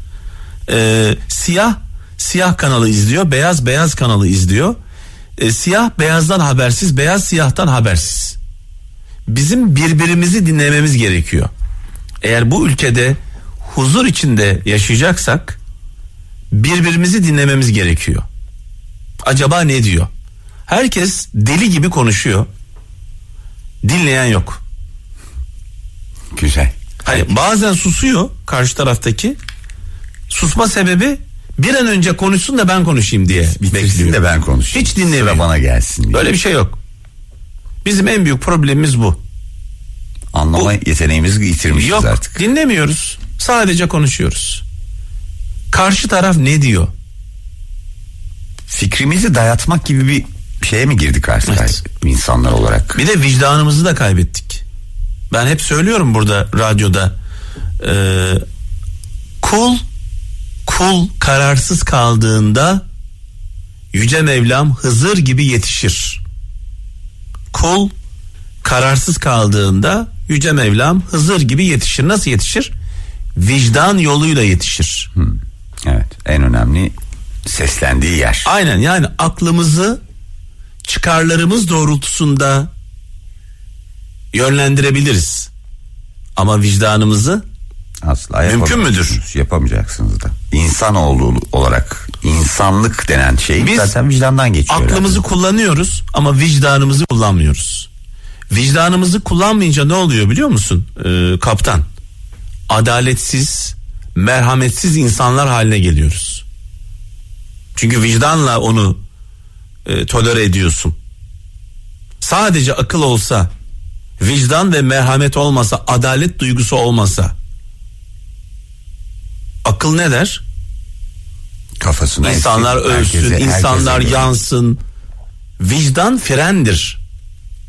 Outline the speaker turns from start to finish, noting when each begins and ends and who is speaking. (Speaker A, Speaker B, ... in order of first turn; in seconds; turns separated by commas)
Speaker A: 0.7-4.8, Speaker A: 5.4-8.4, Speaker A: 9.3-11.5, Speaker A: 12.2-15.6, Speaker A: 16.5-18.2, Speaker A: 19.2-20.1, Speaker A: 20.7-22.5, Speaker A: 23.8-24.6, Speaker B: 26.3-26.7, Speaker A: 27.0-29.4, Speaker A: 30.3-34.2, Speaker B: 33.6-36.3, Speaker A: 34.7-35.5, Speaker A: 36.1-36.8, Speaker A: 37.8-39.2, Speaker B: 40.3-42.3, Speaker A: 41.7-44.6, Speaker A: 45.7-46.9, Speaker B: 48.7-53.0, Speaker A: 51.5-51.8, Speaker A: 53.0-54.6, Speaker A: 55.3-57.2, Speaker A: 57.8-58.4, Speaker A: 59.4-59.8, Speaker A: 60.6-62.9, Speaker A: 63.9-66.2, Speaker A: 67.5-67.9, Speaker A: 68.6-72.7, Speaker A: 73.4-75.1, Speaker B: 75.2-76.9, Speaker B: 77.5-78.5, Speaker A: 78.5-80.0, Speaker A: 80.8-82.7, Speaker A: 84.3-85.5, Speaker A: 86.4-87.4, Speaker B: 88.0-95.2, Speaker A: 88.5-89.2, Speaker A: 93.6-94.0, Speaker A: 94.7-97.9, Speaker A: 98.5-101.9, Speaker A: 102.7-106.5, Speaker A: 107.8-109.0, Speaker A: 109.8-111.0, Speaker A: 112.2-113.5, Speaker A: 114.2-117.3, Speaker A: 119.6-120.4, Speaker B: 121.8-124.4, Speaker A: 122.2-124.8, Speaker A: 125.6-127.0